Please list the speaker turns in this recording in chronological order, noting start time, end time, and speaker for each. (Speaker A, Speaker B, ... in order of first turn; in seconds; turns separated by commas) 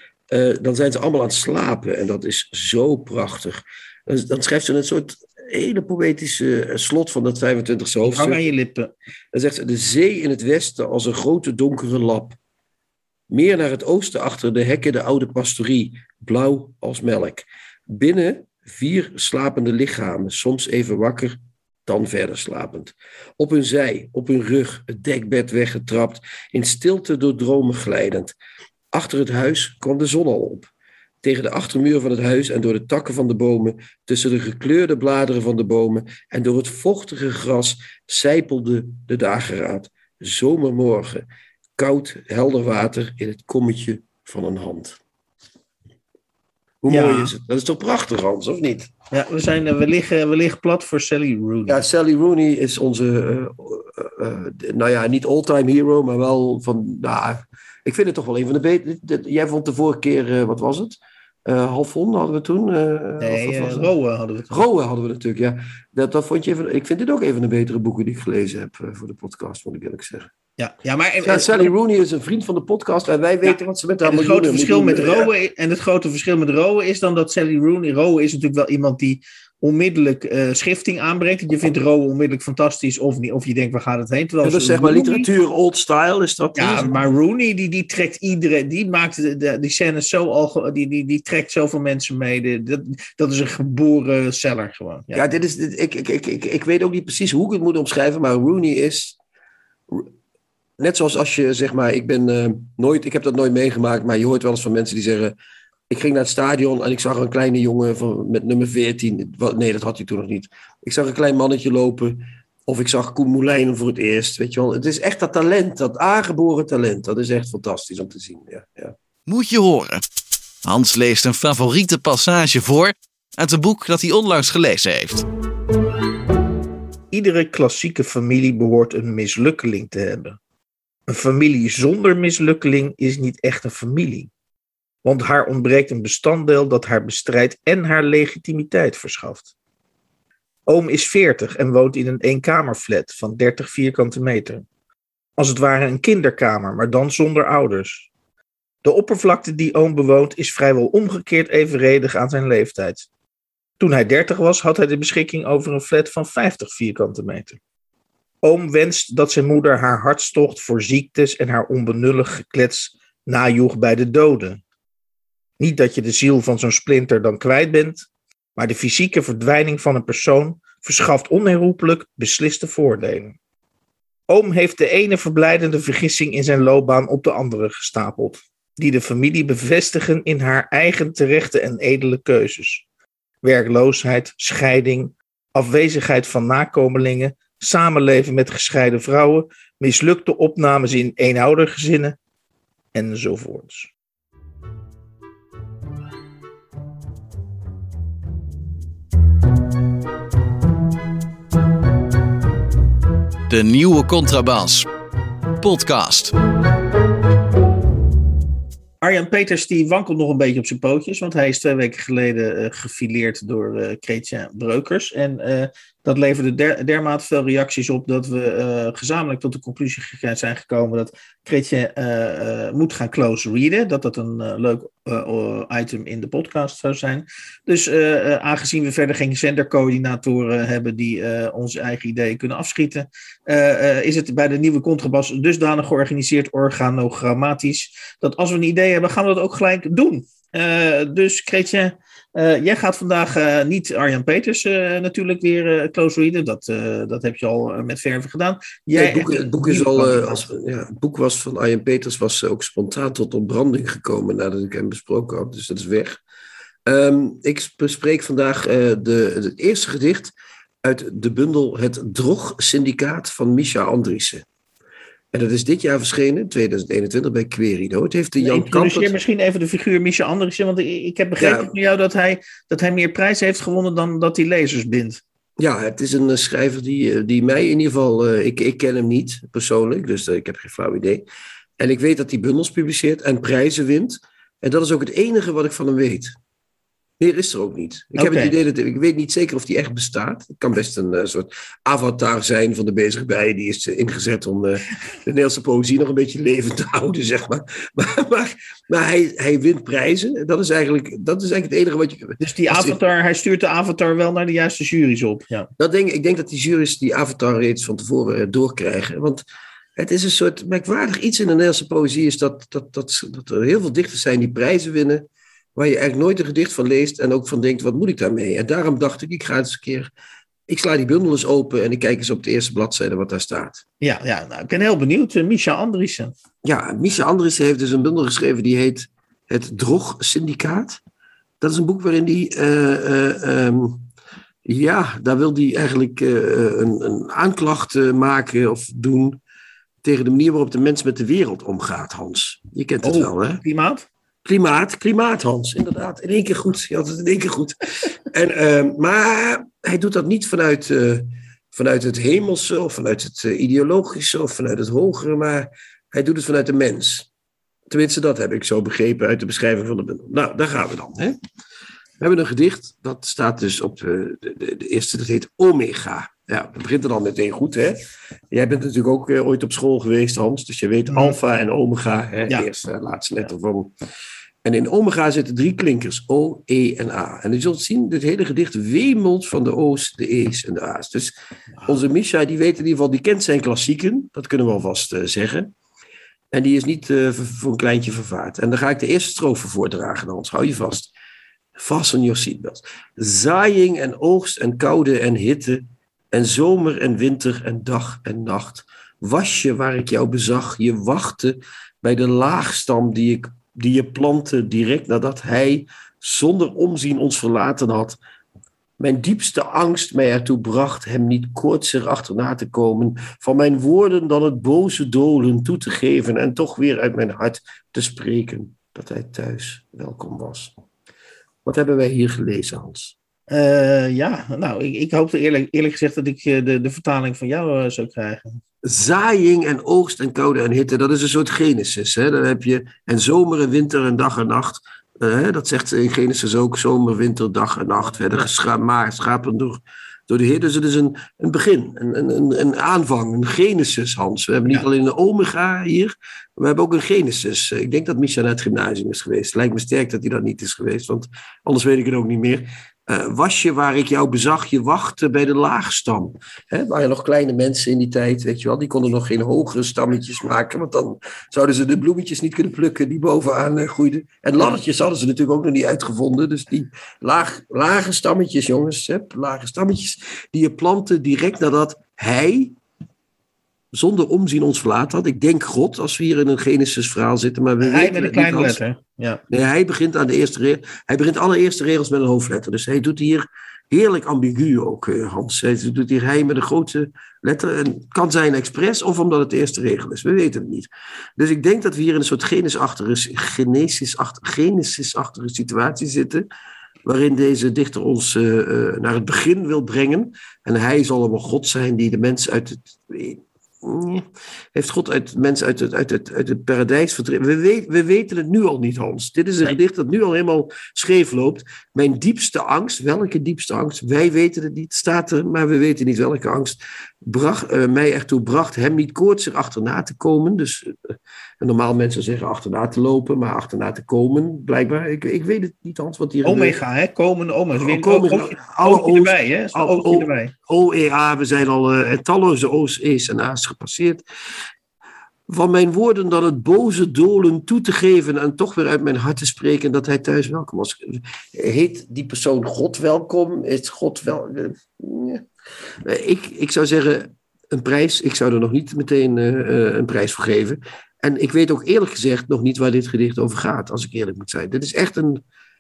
Speaker A: 0.3-8.4, Speaker B: 8.0-8.9, Speaker A: 9.3-12.4, Speaker A: 13.3-28.4, Speaker A: 28.9-30.7, Speaker A: 31.2-41.2, Speaker A: 41.8-45.0, Speaker A: 46.8-48.9, Speaker B: 46.9-47.3, Speaker B: 49.1-51.8, Speaker A: 51.7-63.9, Speaker B: 63.2-64.6, Speaker A: 64.5-70.3, Speaker B: 70.6-71.7, Speaker A: 71.2-75.3, Speaker B: 73.5-85.3, Speaker A: 84.4-87.0, Speaker B: 86.6-95.2, Speaker A: 95.1-99.2, Speaker A: 100.8-105.3, Speaker A: 105.9-119.0, Speaker C: 119.3-120.0, Speaker C: 120.7-125.2, Speaker B: 127.1-130.4, Speaker B: 131.1-134.3, Speaker B: 135.0-139.5, Speaker B: 140.7-144.7, Speaker B: 145.4-148.1, Speaker B: 148.8-153.1, Speaker B: 153.8-157.6, Speaker B: 158.4-164.6, Speaker B: 165.6-173.4, Speaker B: 174.3-182.8, Speaker B: 183.4-192.2, Speaker B: 192.9-193.9, Speaker C: 203.5-204.9, Speaker C: 205.6-206.3, Speaker B: 209.0-250.5, Speaker A: 248.9-256.2, Speaker A: 256.9-264.4, Speaker A: 265.3-269.2, Speaker B: 268.4-275.2, Speaker A: 271.4-271.7, Speaker A: 275.6-281.2, Speaker A: 281.8-286.4, Speaker A: 287.2-303.0, Speaker B: 288.1-288.6, Speaker B: 302.4-305.7, Speaker A: 305.8-309.4, Speaker A: 310.0-320.1, Speaker A: 320.7-323.8, Speaker B: 324.0-326.4, Speaker A: 326.6-331.0, Speaker A: 331.6-334.1, Speaker A: 334.6-339.4, Speaker A: 340.0-343.6, Speaker B: 343.0-344.1, Speaker A: 344.4-357.3, Speaker A: 357.9-361.4, Speaker A: 362.2-373.9, Speaker B: 371.1-371.4, Speaker A: 374.6-381.3, Speaker A: 381.9-385.7, Speaker A: 386.5-391.1, Speaker A: 391.8-408.2, Speaker A: 409.0-420.7, Speaker A: 421.6-423.1, Speaker B: 423.5-428.6, Speaker A: 428.8-472.8, Speaker A: 473.9-478.8, Speaker B: 477.8-479.4, Speaker A: 479.5-496.5, Speaker A: 497.1-526.8, Speaker B: 526.4-530.5, Speaker A: 527.8-534.2, Speaker A: 535.5-545.5, Speaker A: 546.0-555.4